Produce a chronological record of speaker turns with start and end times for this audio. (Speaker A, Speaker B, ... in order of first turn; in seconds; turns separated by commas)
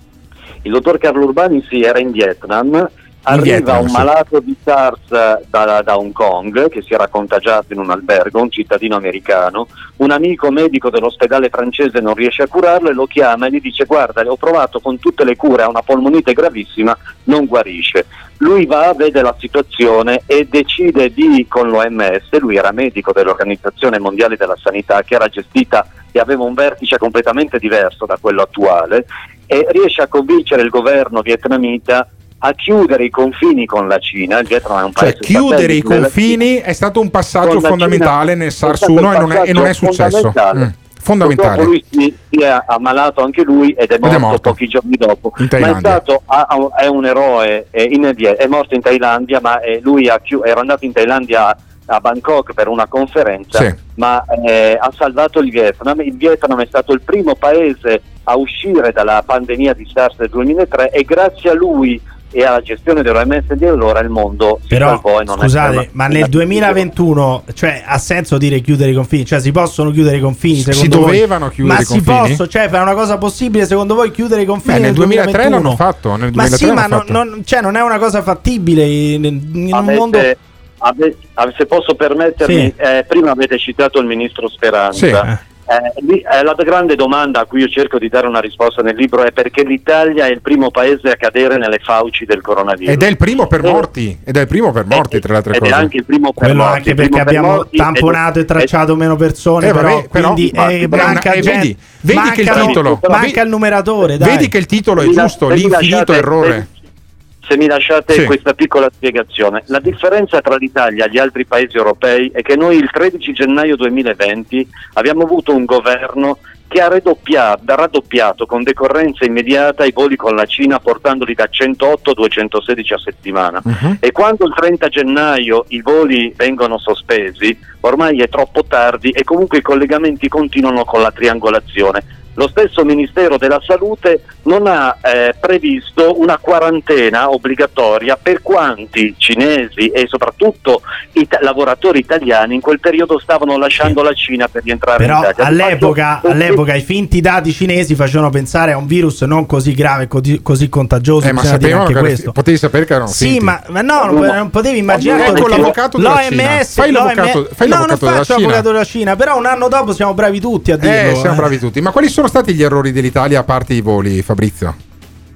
Speaker A: 0.6-36.4, Speaker B: 3.3-4.1, Speaker B: 35.0-41.7, Speaker A: 37.4-40.6, Speaker A: 41.2-66.8, Speaker B: 44.0-44.5, Speaker B: 45.4-46.0, Speaker C: 64.7-75.8, Speaker B: 70.5-72.4, Speaker B: 74.6-77.2, Speaker C: 76.3-80.3, Speaker A: 79.7-93.1, Speaker C: 82.4-82.7, Speaker B: 84.9-85.2, Speaker B: 92.8-95.9, Speaker A: 94.9-98.7, Speaker C: 96.4-104.5, Speaker B: 99.6-103.4, Speaker A: 100.8-101.5, Speaker A: 102.5-103.1, Speaker B: 104.2-106.7, Speaker A: 105.0-106.6, Speaker A: 107.5-146.6, Speaker B: 123.7-124.0, Speaker C: 145.0-152.3, Speaker B: 151.2-153.5, Speaker C: 153.1-161.5, Speaker A: 154.0-154.3, Speaker A: 154.9-155.7, Speaker B: 155.0-158.7, Speaker B: 160.8-164.8